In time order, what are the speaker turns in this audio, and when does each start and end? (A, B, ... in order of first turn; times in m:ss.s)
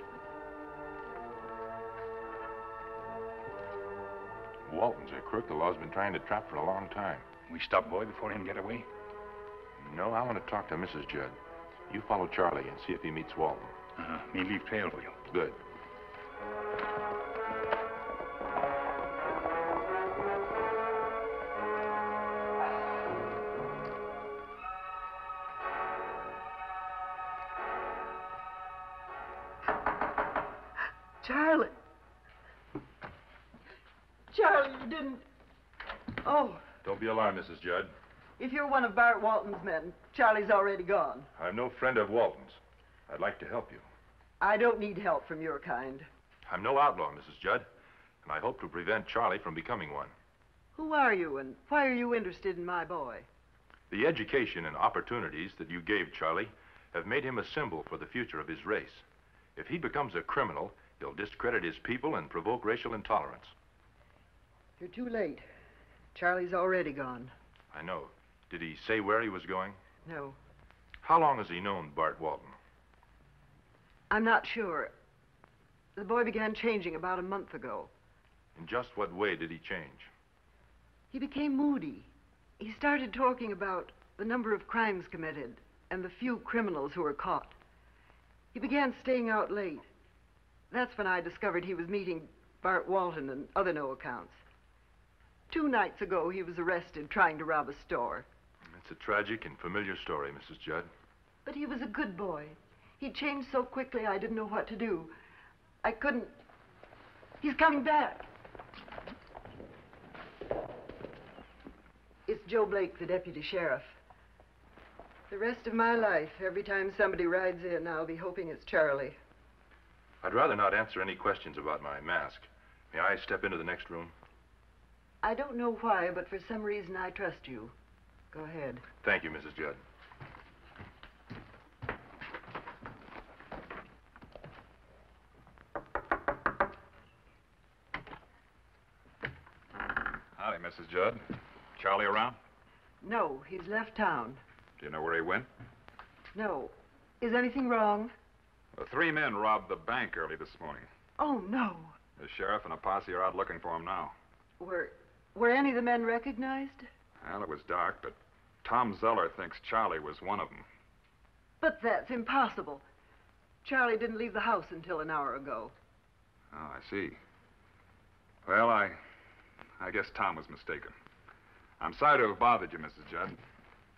0:04.7-0:07.2 A
0:07.5-0:08.9 B
0:09.8-0:11.4 A
0:11.9-0:13.7 A
0:14.0-0:15.2 B
0:15.3-0:15.6 A
0:31.2-0:31.7 C
0:34.3-0:35.2 C
0:36.2-0:36.6 C
0:36.8-0:37.9 A
0:38.4-0:41.3 C
0:41.4-0:43.8 A
0:44.4-0:46.1 C
0:46.5-0:47.7 A
0:48.2-0:50.1 A
0:50.8-0:53.3 C
0:53.9-0:59.0 A
0:59.6-1:03.5 A
1:04.8-1:05.4 C
1:06.1-1:07.3 C
1:07.7-1:09.8 A
1:10.1-1:10.4 C
1:11.0-1:12.6 A
1:14.1-1:14.9 C
1:16.0-1:17.9 C
1:18.6-1:20.1 A
1:21.1-1:27.5 C
1:28.5-1:29.9 C
1:30.7-1:34.4 C
1:35.5-1:38.3 C
1:38.7-1:40.9 A
1:41.4-1:45.1 C
1:45.8-1:46.3 C
1:47.4-1:48.3 C
1:52.3-1:54.0 C
1:55.3-1:59.2 C
2:00.2-2:04.1 A
2:05.2-2:07.7 C
2:08.3-2:08.8 C
2:09.0-2:09.8 A
2:20.4-2:21.2 D
2:21.8-2:22.4 D
2:23.0-2:24.4 C
2:24.8-2:25.5 D
2:26.3-2:28.1 C
2:28.7-2:30.9 D
2:31.2-2:32.0 C
2:32.2-2:34.1 D
2:34.6-2:36.9 C
2:37.2-2:40.7 D
2:41.6-2:42.8 C
2:43.6-2:45.7 C
2:46.5-2:47.2 D
2:48.4-2:49.0 D
2:49.8-2:50.9 D
2:51.8-2:53.4 D